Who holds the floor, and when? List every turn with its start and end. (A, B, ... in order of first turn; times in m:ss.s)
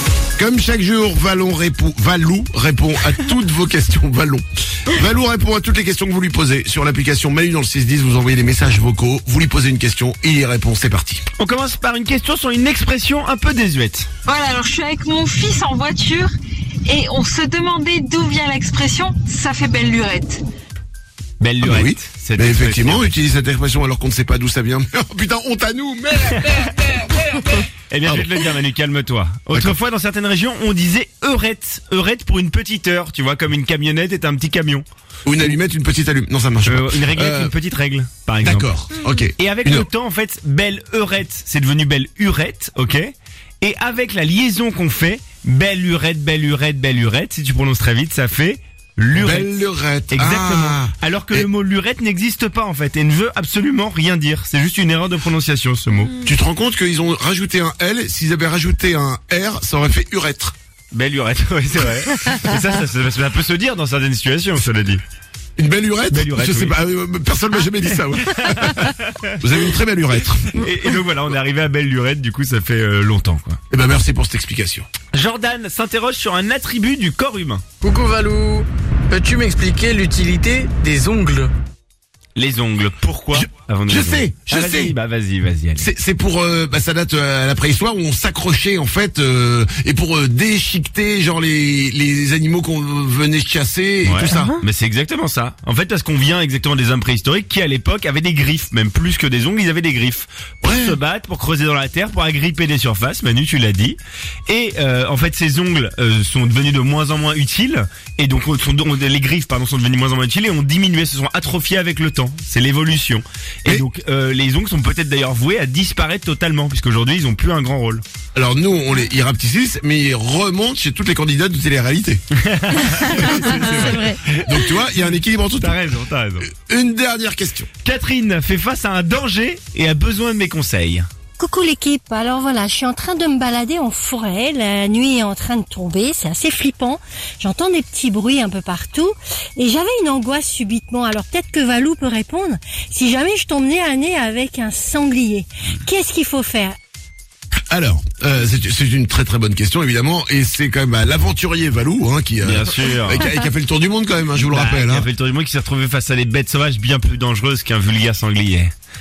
0:00.4-0:11.2 A
0:11.4-0:14.1 B
0:14.3-0:16.3 C
0:16.9-0:20.4 C
0:21.4-0:23.1 B
0:21.6-0:28.4 A
0:27.9-0:34.9 B
0:35.3-0:37.5 A
0:36.6-0:49.6 B
0:38.4-0:39.9 A
0:49.2-0:51.5 A
0:50.1-0:56.2 B
0:56.2-1:00.6 A
1:00.9-1:05.0 B
1:05.6-1:10.6 A
1:06.1-1:06.8 B
1:08.4-1:09.4 B
1:10.6-1:13.6 B
1:13.7-1:14.9 A
1:15.1-1:17.6 B
1:17.8-1:21.5 D
1:22.4-1:25.9 B
1:23.3-1:25.0 A
1:25.8-1:34.6 A
1:34.0-1:58.0 B
1:40.6-1:41.0 A
1:58.4-2:02.2 A
2:02.4-2:04.5 B
2:03.0-2:05.8 A
2:05.6-2:06.5 B
2:06.4-2:07.7 A
2:07.8-2:11.1 B
2:11.4-2:26.8 E
2:27.7-2:35.1 A
2:32.4-2:33.3 B
2:34.4-2:38.7 B